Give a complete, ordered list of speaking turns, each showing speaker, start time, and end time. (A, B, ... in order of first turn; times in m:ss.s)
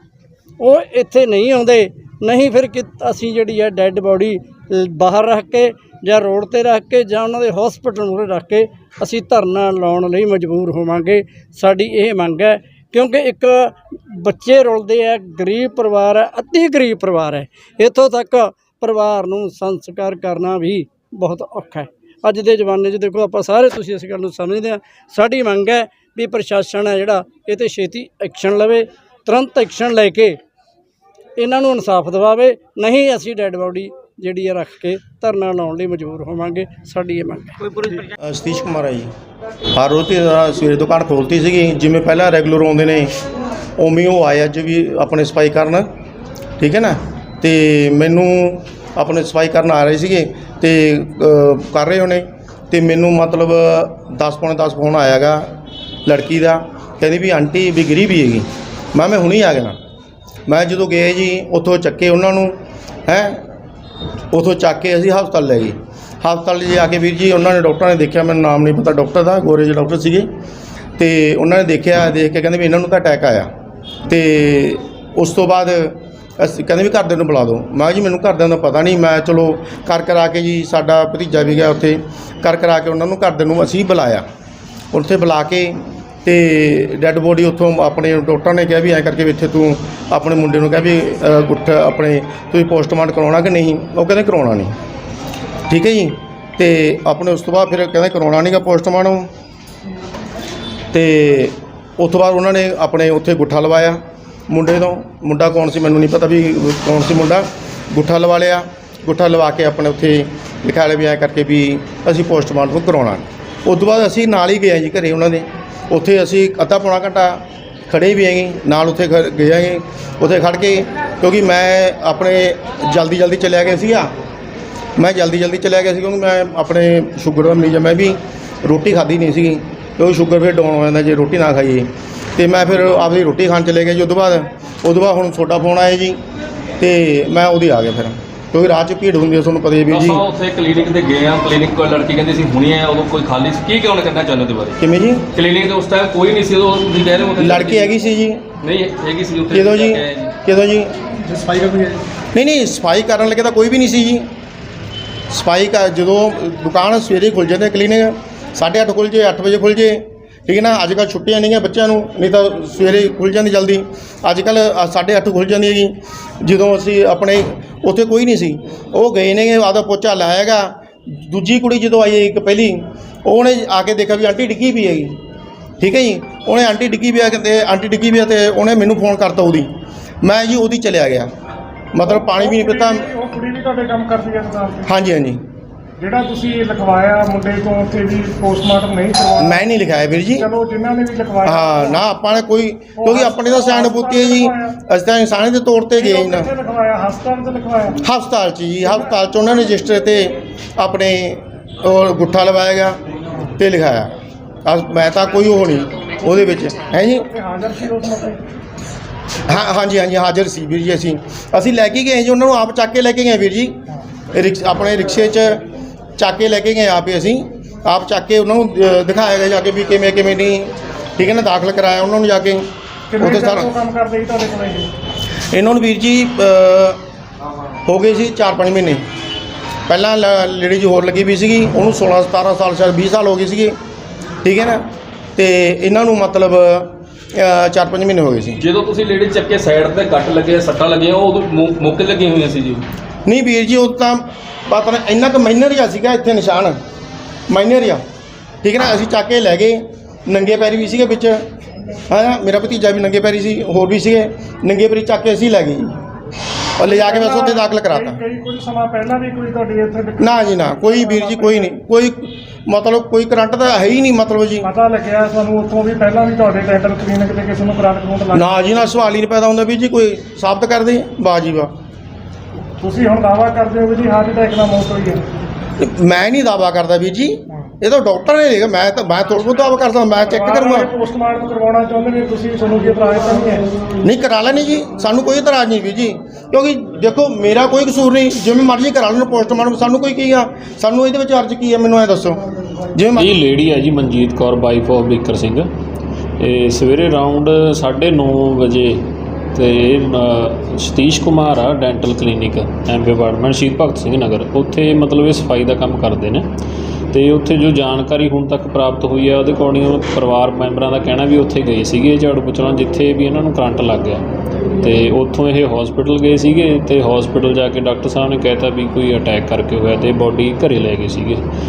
0:00.6-0:30.4 A
0:31.4-0:37.8 A
0:38.2-0:39.1 B
0:39.8-0:43.1 B
0:43.8-0:45.9 B
0:46.6-0:55.5 B
0:56.1-0:59.8 B
1:00.5-1:03.4 B
1:04.3-1:10.3 B
1:11.0-1:13.5 B
1:14.1-1:24.2 B
1:24.9-1:34.7 B
1:35.7-1:39.3 B
1:40.9-2:04.1 B
2:05.0-2:16.2 B
2:16.8-2:20.2 B
2:19.9-2:24.8 C
2:24.8-2:25.2 B
2:25.3-2:27.9 C
2:27.4-2:28.4 B
2:28.6-2:30.3 C
2:29.5-2:30.9 B
2:31.4-2:31.9 C
2:32.4-2:34.2 B
2:35.3-2:55.2 B
2:55.8-2:59.7 B
3:00.2-3:01.3 B
3:01.9-3:03.1 B
3:02.1-3:04.9 D
3:04.9-3:05.4 B
3:06.0-3:09.6 D
3:09.4-3:10.5 B
3:10.4-3:12.0 D
3:11.4-3:16.5 B
3:13.0-3:14.7 D
3:16.0-3:17.9 D
3:18.0-3:23.0 B
3:23.6-3:24.1 B
3:24.6-3:27.2 B
3:27.2-3:28.4 D
3:29.5-3:33.8 B
3:34.3-3:35.6 B
3:36.2-3:42.6 B
3:43.1-3:44.9 D
3:43.2-3:43.7 B
3:45.5-3:47.0 B
3:47.9-3:49.0 B
3:49.9-3:53.8 B
3:54.4-3:54.8 B
3:55.4-3:58.6 B
3:58.6-4:02.8 C
4:03.2-4:06.8 B
4:07.5-4:08.0 B
4:08.6-4:11.4 B
4:12.1-4:15.9 B
4:16.8-4:18.2 B
4:16.8-4:21.7 D
4:20.2-4:24.7 B
4:24.6-4:28.6 D
4:28.3-4:31.7 B
4:32.8-4:35.2 D
4:35.8-4:40.9 B
4:40.3-4:43.6 D
4:44.0-4:52.4 B
4:53.0-4:53.3 B
4:53.2-4:55.7 E
4:56.4-4:59.0 E
4:59.5-5:06.5 E
5:07.1-5:14.2 E
5:14.8-5:21.4 E